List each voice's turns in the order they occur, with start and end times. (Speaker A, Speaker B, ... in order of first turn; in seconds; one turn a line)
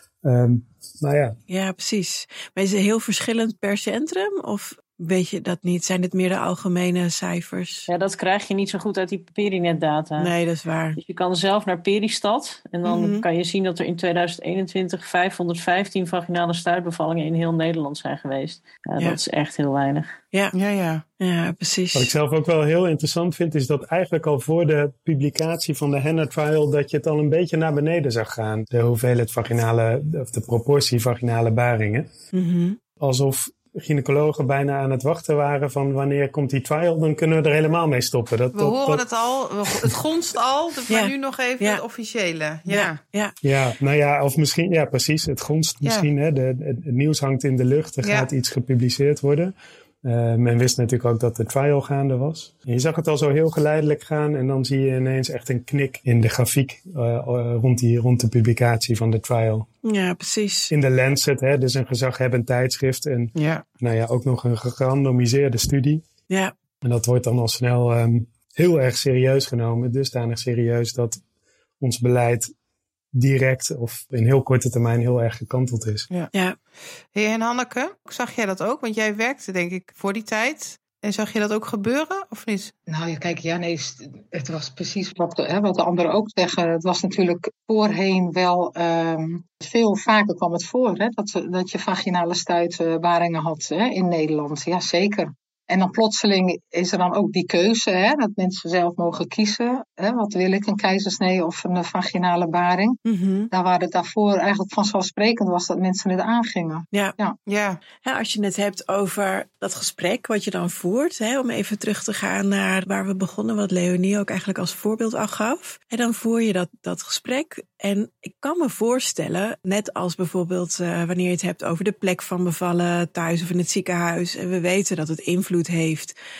Speaker A: 0.2-1.4
Speaker B: 1.5-7.9
Speaker C: 7.9-10.3
Speaker B: 10.2-11.0
Speaker C: 11.0-20.2
Speaker B: 12.8-13.2
Speaker D: 20.5-21.0
Speaker B: 21.2-22.1
Speaker A: 21.9-32.1
Speaker B: 32.3-32.8
Speaker A: 33.0-39.0
Speaker D: 38.5-43.0
Speaker B: 40.9-41.8
Speaker B: 42.7-43.4
Speaker A: 43.4-59.7
Speaker D: 45.8-46.1
Speaker D: 48.0-48.3
Speaker B: 59.8-60.7
Speaker A: 60.7-66.1
Speaker D: 63.3-63.6
Speaker A: 66.8-71.2
Speaker A: 71.8-72.5
Speaker A: 73.1-76.1
Speaker D: 77.1-82.7
Speaker E: 82.9-107.3
Speaker B: 103.0-103.5
Speaker D: 107.5-107.8
Speaker B: 108.0-126.2